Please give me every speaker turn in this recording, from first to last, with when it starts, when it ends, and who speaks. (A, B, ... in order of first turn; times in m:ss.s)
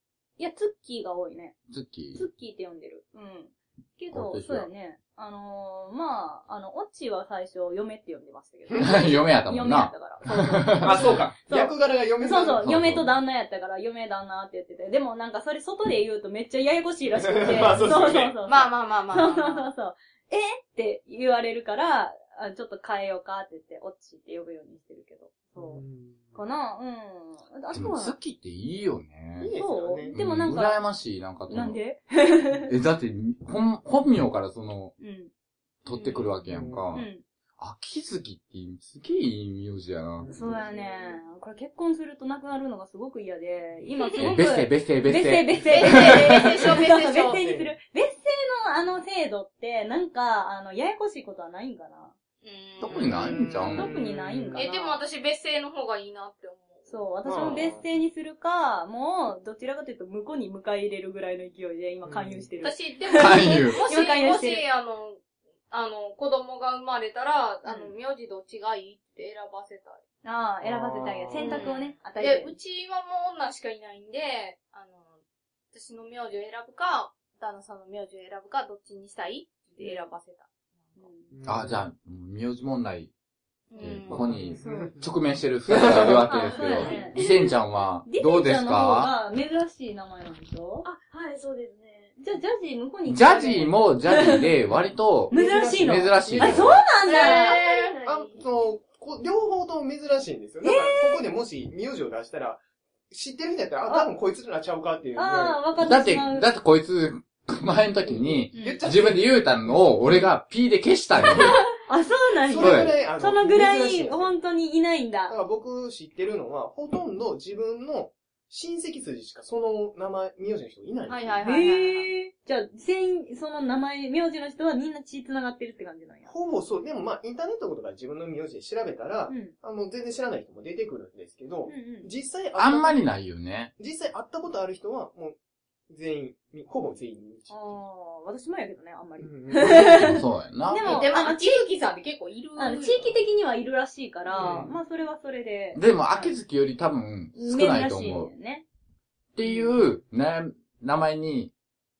0:00.4-0:01.6 A
0:01.7-0:02.2 B
0:02.1-0:25.8 A
0:04.1-0:04.7 B
0:08.8-0:11.3 B
0:10.8-0:12.6 C
0:12.6-0:13.1 B
0:17.1-0:18.4 C
0:17.5-0:17.9 B
0:18.4-0:19.7 D
0:25.5-0:26.4 C
0:26.3-0:28.2 A
0:27.7-0:29.5 B
0:29.4-0:30.2 C
0:29.5-0:30.8 A
0:30.1-0:31.8 B
0:31.5-0:32.7 A
0:32.7-0:34.9 B
0:35.0-0:35.3 A
0:35.8-0:40.3 B
0:36.5-0:36.8 C
0:36.9-0:37.2 A
0:40.2-0:41.2 C
0:40.3-0:52.1 A
0:44.2-0:46.5 B
0:45.7-0:47.4 D
0:47.2-0:47.7 C
0:52.4-0:53.4 D
0:52.8-0:54.0 B
0:53.0-0:54.6 C
0:53.6-0:55.0 A
0:54.5-0:56.9 D
0:56.8-1:04.6 A
0:57.2-0:57.8 C
1:02.0-1:02.5 C
1:02.6-1:10.0 D
1:03.1-1:03.8 B
1:07.6-1:07.9 A
1:10.2-1:12.6 A
1:10.6-1:11.7 C
1:11.4-1:15.2 D
1:15.7-1:21.0 D
1:21.0-1:21.3 A
1:21.3-1:21.8 C
1:21.4-1:23.1 B
1:23.7-1:24.5 D
1:23.8-1:25.1 C
1:23.8-1:29.1 B
1:24.6-1:24.9 A
1:25.7-1:27.0 C
1:26.3-1:27.2 A
1:26.5-1:27.5 E
1:28.0-1:30.9 A
1:30.8-1:32.2 E
1:32.2-1:34.5 A
1:33.0-1:36.8 B
1:35.3-1:36.8 C
1:35.3-1:37.6 A
1:37.0-1:38.4 E
1:37.0-1:38.0 D
1:38.0-1:45.6 C
1:40.6-1:41.2 A
1:45.1-1:46.5 A
1:45.8-1:51.6 B
1:48.0-1:49.8 C
1:48.5-1:48.8 A
1:51.9-1:55.4 A
1:52.4-1:54.4 C
1:52.6-1:52.9 B
1:55.3-2:01.4 C
2:01.1-2:02.1 D
2:01.4-2:06.3 A
2:06.3-2:13.0 C
2:09.3-2:09.5 A
2:11.7-2:12.1 A
2:12.6-2:13.7 B
2:13.8-2:15.4 C
2:15.9-2:17.7 C
2:17.5-2:21.6 A
2:19.2-2:20.1 C
2:19.7-2:21.0 B
2:20.8-2:23.1 D
2:22.6-2:26.4 A
2:24.3-2:24.8 C
2:25.7-2:28.3 B
2:27.3-2:28.6 A
2:29.3-2:31.5 B